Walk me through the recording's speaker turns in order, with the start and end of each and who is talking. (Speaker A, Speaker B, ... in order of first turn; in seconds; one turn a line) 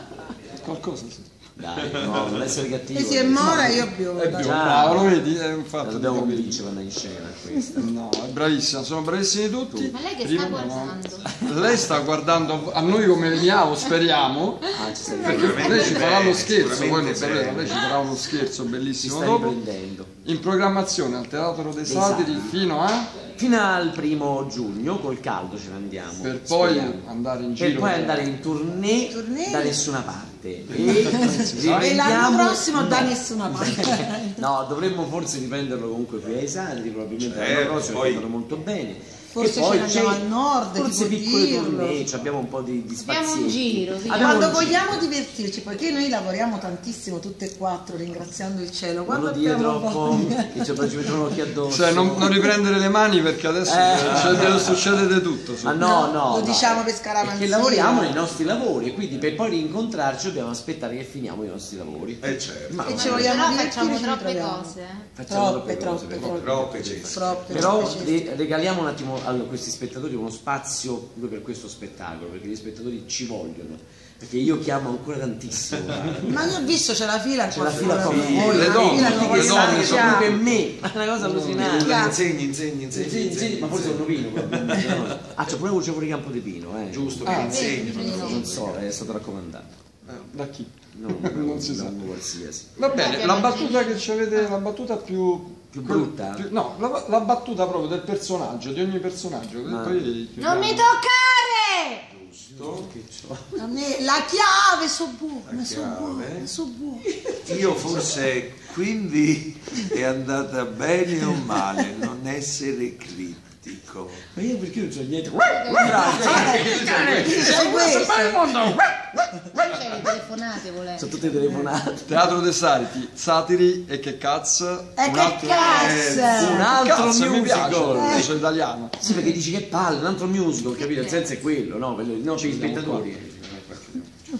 Speaker A: 0.6-1.3
Speaker B: 1.6-5.1
Speaker C: 1.8-2.6
Speaker D: 2.9-4.9
Speaker A: 3.4-6.6
Speaker B: 5.8-7.9
Speaker A: 7.8-14.7
Speaker E: 9.9-11.3
Speaker B: 11.2-11.9
Speaker B: 14.7-16.1
Speaker A: 15.2-19.5
Speaker C: 15.3-17.8
Speaker B: 19.0-20.1
Speaker A: 20.2-23.1
Speaker B: 21.9-22.6
Speaker B: 23.4-27.1
Speaker A: 26.2-28.3
Speaker B: 27.6-45.0
Speaker D: 29.1-29.8
Speaker D: 30.8-34.5
Speaker A: 31.2-31.6
Speaker C: 31.6-31.9
Speaker C: 37.2-38.3
Speaker D: 39.3-42.0
Speaker E: 43.0-44.7
Speaker D: 44.1-51.1
Speaker B: 49.1-52.5
Speaker A: 51.7-55.8
Speaker B: 53.6-54.7
Speaker C: 53.9-54.9
Speaker B: 55.6-63.4
Speaker D: 55.8-58.2
Speaker C: 62.2-63.3
Speaker D: 62.9-64.8
Speaker E: 62.9-65.1
Speaker B: 65.1-67.0
Speaker D: 65.3-68.2
Speaker C: 66.2-67.7
Speaker A: 66.8-67.1
Speaker B: 67.5-76.6
Speaker C: 75.9-76.3
Speaker D: 76.3-80.4
Speaker B: 77.5-82.0
Speaker C: 77.6-80.2
Speaker A: 78.3-82.1
Speaker C: 81.6-85.3
Speaker D: 81.7-82.2
Speaker B: 82.9-87.4
Speaker C: 86.9-89.1
Speaker E: 87.2-88.5
Speaker A: 87.2-87.7
Speaker D: 87.5-88.2
Speaker B: 88.0-89.7
Speaker A: 90.0-92.1
Speaker B: 90.9-92.7
Speaker A: 92.8-100.9
Speaker E: 92.8-94.5
Speaker B: 95.7-96.5
Speaker B: 99.7-100.1
Speaker E: 100.4-102.0
Speaker C: 102.2-102.9
Speaker B: 102.5-103.5
Speaker D: 103.5-107.1
Speaker C: 105.5-106.5
Speaker B: 107.1-108.2
Speaker C: 107.4-114.2
Speaker D: 111.2-111.8
Speaker B: 114.3-120.0
Speaker E: 115.5-117.0
Speaker D: 116.2-118.7
Speaker A: 116.2-117.5
Speaker E: 119.5-121.1
Speaker B: 121.0-122.3
Speaker A: 122.1-125.6
Speaker D: 125.0-126.7
Speaker B: 125.0-128.2
Speaker C: 125.6-126.7
Speaker A: 126.6-129.0
Speaker C: 127.5-128.3
Speaker D: 127.9-128.3
Speaker B: 129.0-133.8
Speaker E: 129.0-129.4
Speaker E: 130.7-131.4
Speaker A: 132.3-133.1
Speaker C: 133.5-134.1